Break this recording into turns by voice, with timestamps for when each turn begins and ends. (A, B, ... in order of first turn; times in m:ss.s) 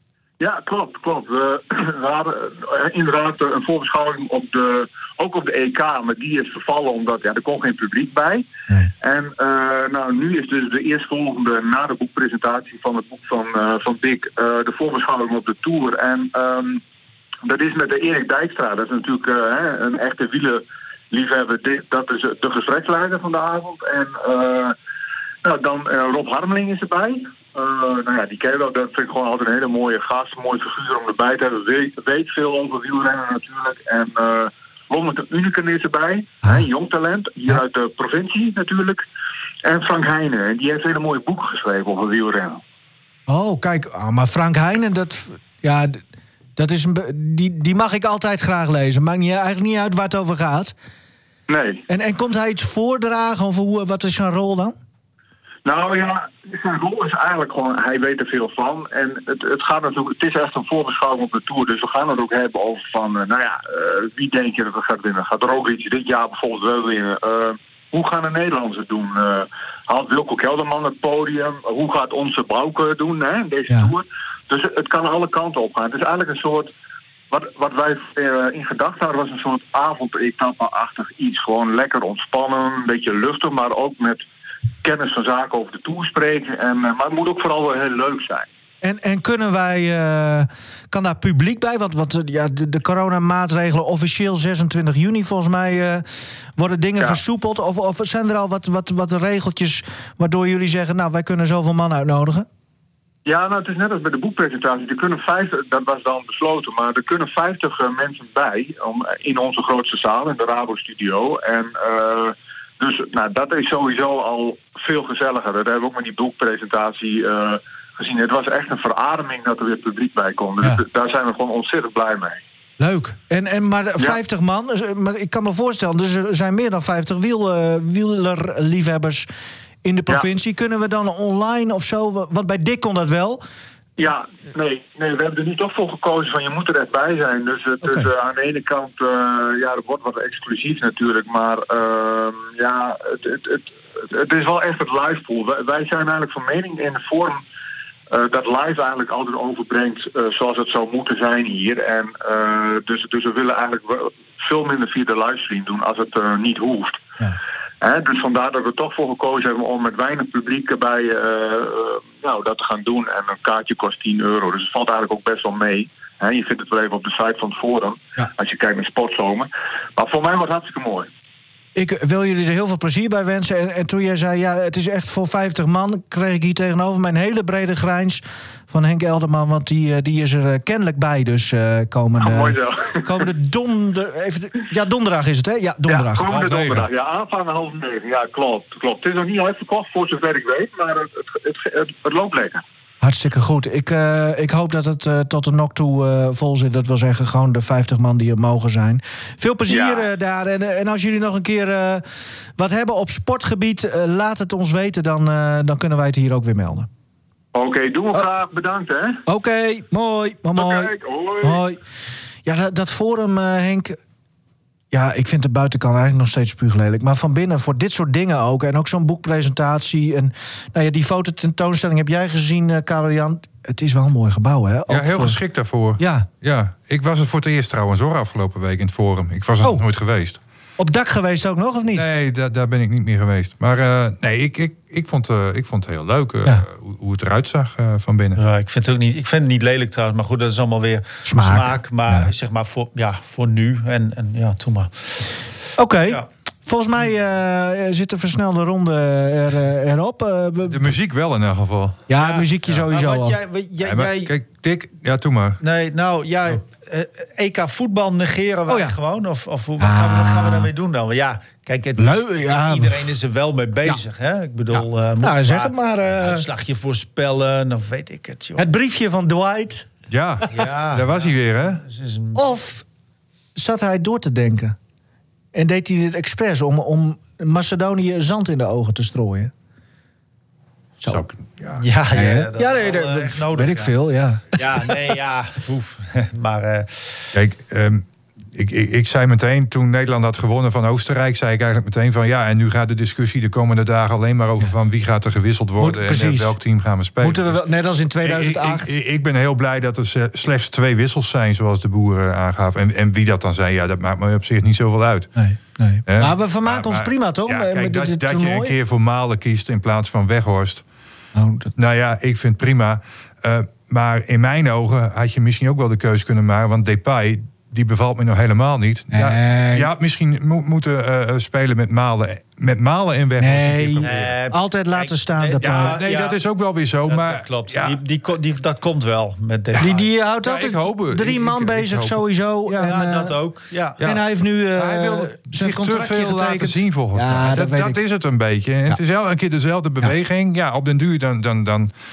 0:00.4-0:08.5 A
0:09.0-0:16.8 A
0:17.4-0:24.8 A
0:25.4-0:39.0 A
0:39.6-0:42.6 A
0:43.3-0:46.0 B
0:46.6-0:50.8 B
0:51.5-0:51.8 A
0:51.9-0:54.8 B
0:55.6-1:16.7 A
1:17.3-1:24.2 A
1:24.8-1:28.5 A
1:28.8-1:36.0 B
1:36.6-1:42.5 B
1:43.2-2:02.4 A
2:02.8-2:09.3 B
2:09.8-2:13.4 B
2:14.0-2:27.4 A
2:17.8-2:18.1 B
2:28.1-2:37.0 A
2:37.8-2:51.1 A
2:51.8-3:06.3 B
3:02.2-3:03.3 A
3:05.9-3:12.6 A
3:06.3-3:06.9 C
3:13.0-3:22.0 B
3:19.7-3:20.1 A
3:22.6-3:26.9 B
3:27.5-3:29.2 A
3:29.3-3:31.8 B
3:30.6-3:31.6 A
3:32.4-3:34.0 B
3:34.9-3:45.4 B
3:44.9-3:50.4 C
3:46.0-3:46.3 B
3:50.8-3:52.1 B
3:52.0-3:58.4 C
3:58.4-4:05.4 D
4:01.2-4:02.3 B
4:05.8-4:10.9 B
4:10.6-4:12.1 C
4:12.1-4:13.4 B
4:12.2-4:14.3 D
4:13.8-4:15.6 C
4:15.6-4:28.6 D
4:18.7-4:19.0 B
4:19.8-4:20.7 B
4:22.0-4:23.1 B
4:24.8-4:26.4 B
4:28.6-4:29.9 B
4:30.1-4:31.8 C
4:30.5-4:32.5 D
4:32.4-4:32.8 B
4:33.6-4:34.8 B
4:35.5-4:39.5 B
4:41.1-4:41.8 C
4:41.8-4:44.0 D
4:42.1-4:45.0 B
4:44.5-4:47.3 D
4:47.3-4:57.6 C
4:55.8-4:56.6 B
4:57.2-4:58.9 B
4:58.2-5:05.3 C
5:05.4-5:08.8 B
5:06.1-5:10.8 C
5:11.3-5:11.7 B
5:11.8-5:24.4 C
5:19.1-5:19.9 B
5:23.4-5:26.0 B
5:24.0-5:26.4 D
5:25.6-5:28.0 C
5:27.1-5:30.1 D
5:29.8-5:33.4 B
5:30.4-5:32.8 C
5:32.8-5:34.0 D
5:34.0-5:41.9 C
5:34.0-5:38.0 B